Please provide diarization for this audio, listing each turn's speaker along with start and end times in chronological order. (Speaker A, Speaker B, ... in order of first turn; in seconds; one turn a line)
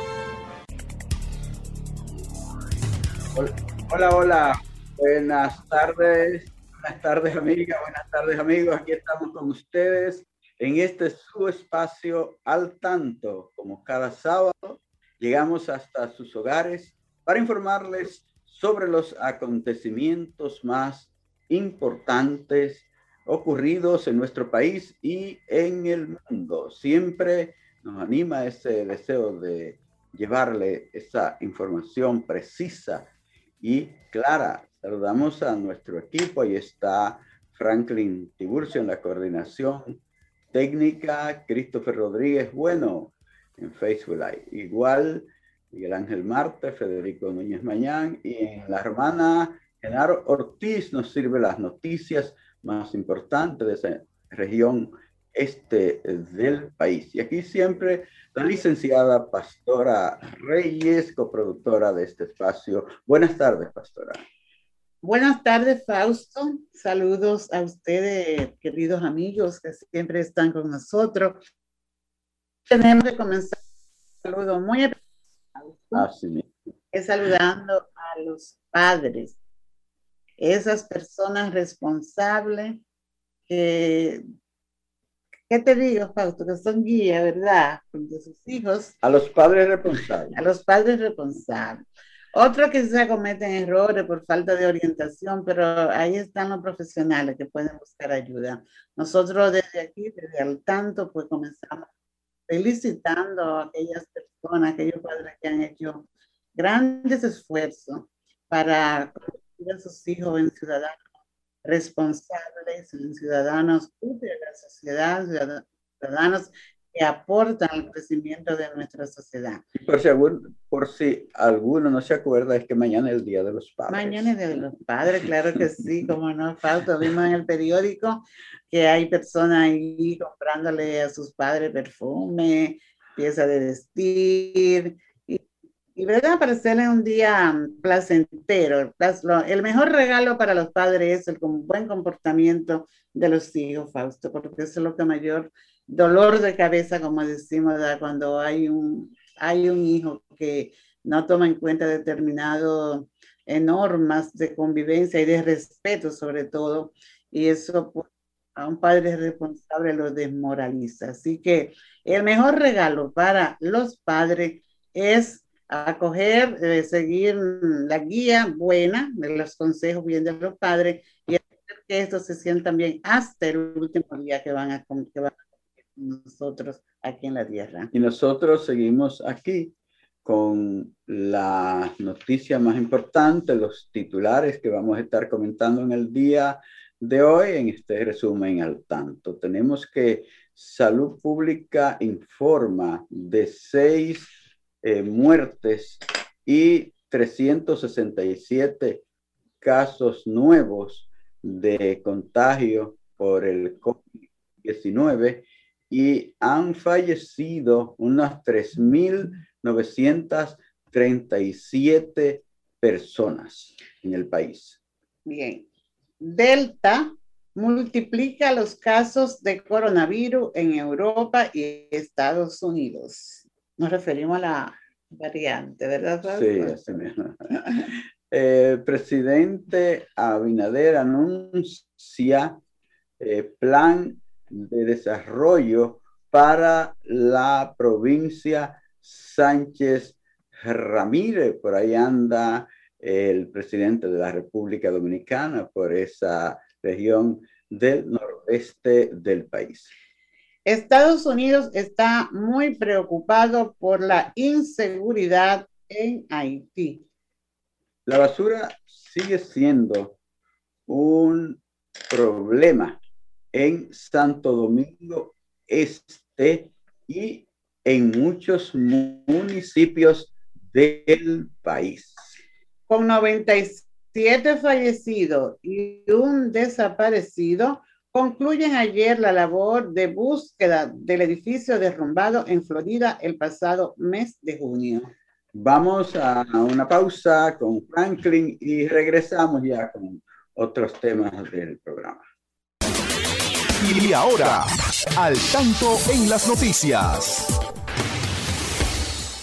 Speaker A: 3.3-40.0
Speaker A: 40.5-64.2
Speaker B: 65.0-71.4
Speaker B: 72.7-73.6
Speaker B: 74.2-75.0
Speaker B: 75.5-76.1
Speaker A: 75.9-76.5
Speaker B: 76.9-79.4
Speaker B: 80.4-82.8
Speaker B: 83.5-84.2
Speaker B: 85.5-89.0
Speaker A: 89.0-90.4
Speaker B: 90.3-101.9
Speaker B: 102.5-111.0
Speaker B: 111.6-119.6
Speaker A: 119.8-124.3
Speaker B: 123.9-135.4
Speaker B: 135.9-177.9
Speaker A: 177.9-194.3
Speaker A: 194.8-199.0
Speaker A: 199.6-214.8
Speaker B: 215.2-215.7
Speaker B: 216.2-227.1
Speaker A: 226.3-227.5
Speaker A: 228.3-232.6
Speaker A: 233.2-249.9
Speaker B: 250.7-257.1
Speaker A: 258.1-260.2
Speaker A: 260.9-263.0
Speaker A: 263.5-272.3
Speaker B: 272.9-285.1
Speaker A: 285.5-292.2
Speaker C: 293.8-297.5